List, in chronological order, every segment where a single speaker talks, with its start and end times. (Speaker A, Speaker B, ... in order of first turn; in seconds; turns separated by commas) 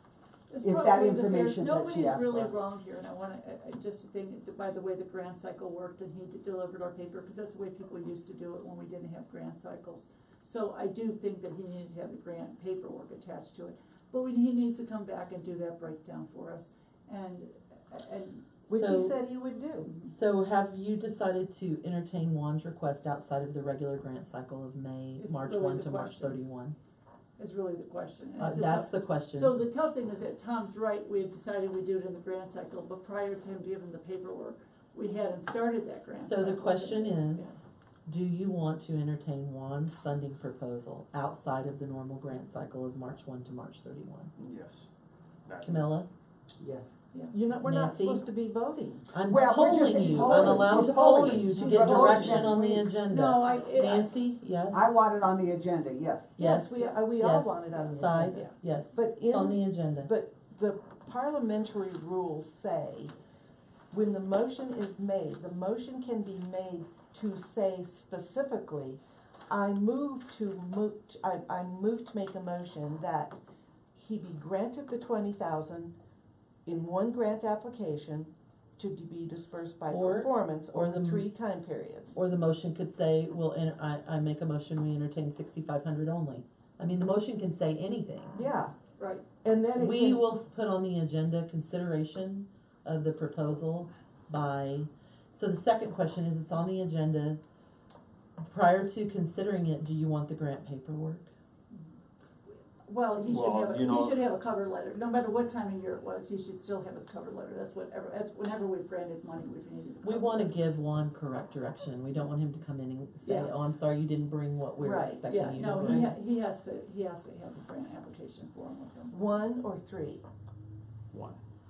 Speaker A: 0.5-18.6, Speaker B: 0.6-2.5, Speaker C: 18.7-19.9, Speaker D: 18.7-19.1, Speaker D: 20.0-26.7, Speaker A: 25.2-26.4, Speaker A: 27.4-37.6, Speaker D: 28.4-29.6, Speaker D: 36.2-44.3, Speaker E: 44.4-44.9, Speaker E: 45.5-45.9, Speaker D: 45.6-46.1, Speaker B: 46.6-46.9, Speaker C: 47.3-49.1, Speaker D: 47.6-48.2, Speaker D: 49.1-54.9, Speaker B: 49.3-52.9, Speaker A: 49.7-52.5, Speaker C: 51.6-52.4, Speaker A: 53.1-54.1, Speaker B: 54.7-56.4, Speaker D: 56.4-60.1, Speaker C: 56.4-63.1, Speaker C: 63.9-73.4, Speaker C: 73.9-75.9, Speaker C: 76.6-82.2, Speaker D: 79.9-81.2, Speaker D: 82.1-88.4, Speaker C: 88.3-88.7, Speaker A: 89.0-89.2, Speaker C: 89.4-90.2, Speaker D: 89.7-97.4, Speaker D: 98.4-101.3, Speaker A: 102.8-110.6, Speaker E: 103.2-104.2, Speaker D: 110.0-116.2, Speaker C: 114.8-116.1, Speaker A: 115.2-119.4, Speaker C: 119.1-120.2, Speaker E: 121.1-121.4